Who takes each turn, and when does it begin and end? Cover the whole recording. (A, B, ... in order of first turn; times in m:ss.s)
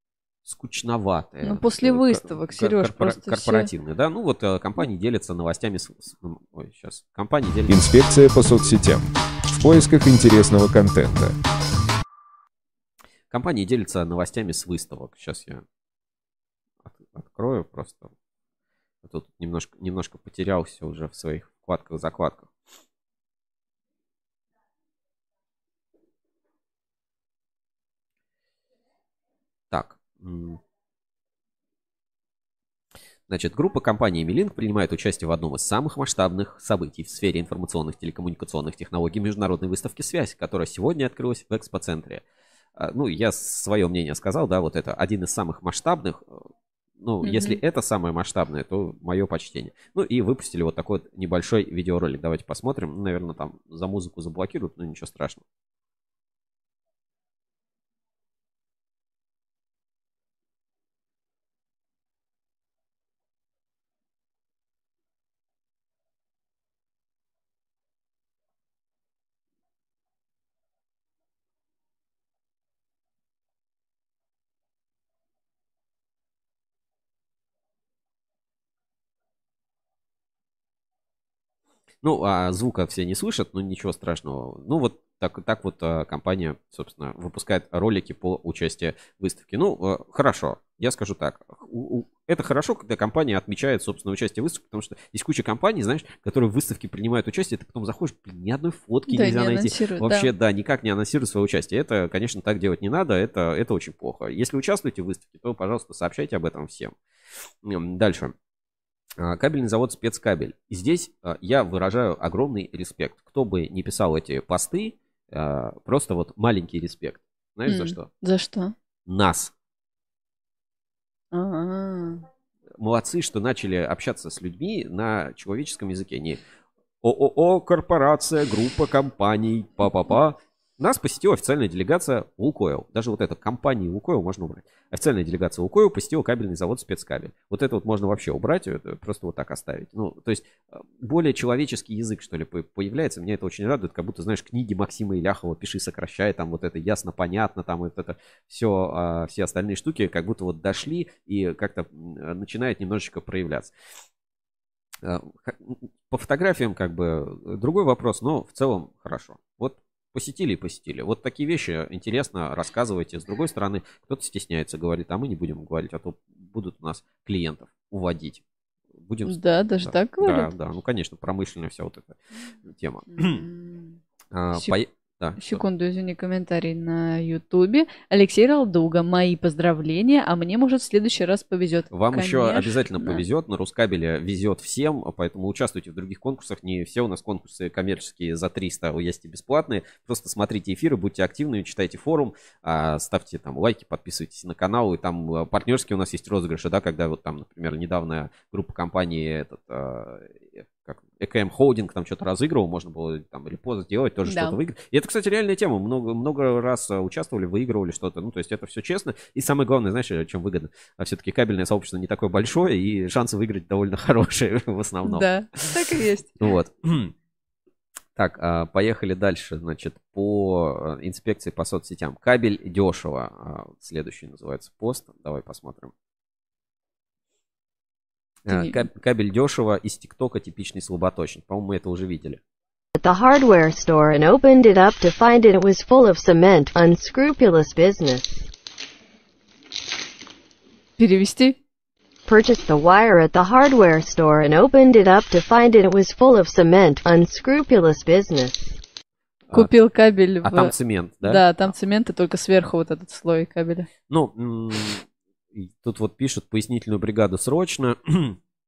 0:00.4-0:07.7 A
0:01.4-0:03.7 B
0:07.7-0:11.4 C
0:13.3-0:15.6 A
0:16.9-0:18.1 A
0:19.0-0:22.5 A
0:29.7-0:30.6 A
0:33.3-0:42.2 A
0:42.8-0:46.5 A
0:47.0-0:55.4 A
0:47.2-0:47.6 B
1:22.0-1:46.9 A
1:39.1-1:40.3 B
1:47.6-1:48.3 A
1:49.2-1:58.1 A
1:57.7-1:58.8 B
1:59.1-1:59.5 A
2:01.3-2:02.2 B
2:02.8-2:06.4 A
2:07.0-2:33.7 A
2:35.0-2:48.4 A
2:49.0-2:53.4 A
2:49.2-2:50.5 B
2:53.1-2:54.0 B
2:54.3-2:55.6 A
2:55.4-3:03.2 B
3:01.9-3:35.8 A
3:24.2-3:24.6 B
3:35.0-3:36.5 B
3:36.4-3:37.1 A
3:38.2-3:45.9 A
3:48.5-3:52.4 A
3:48.5-3:48.8 B
3:53.0-3:58.3 D
4:01.0-4:01.6 B
4:02.3-4:08.5 D
4:09.5-4:09.7 A
4:09.5-4:13.9 B
4:10.4-4:11.5 A
4:14.1-4:18.4 A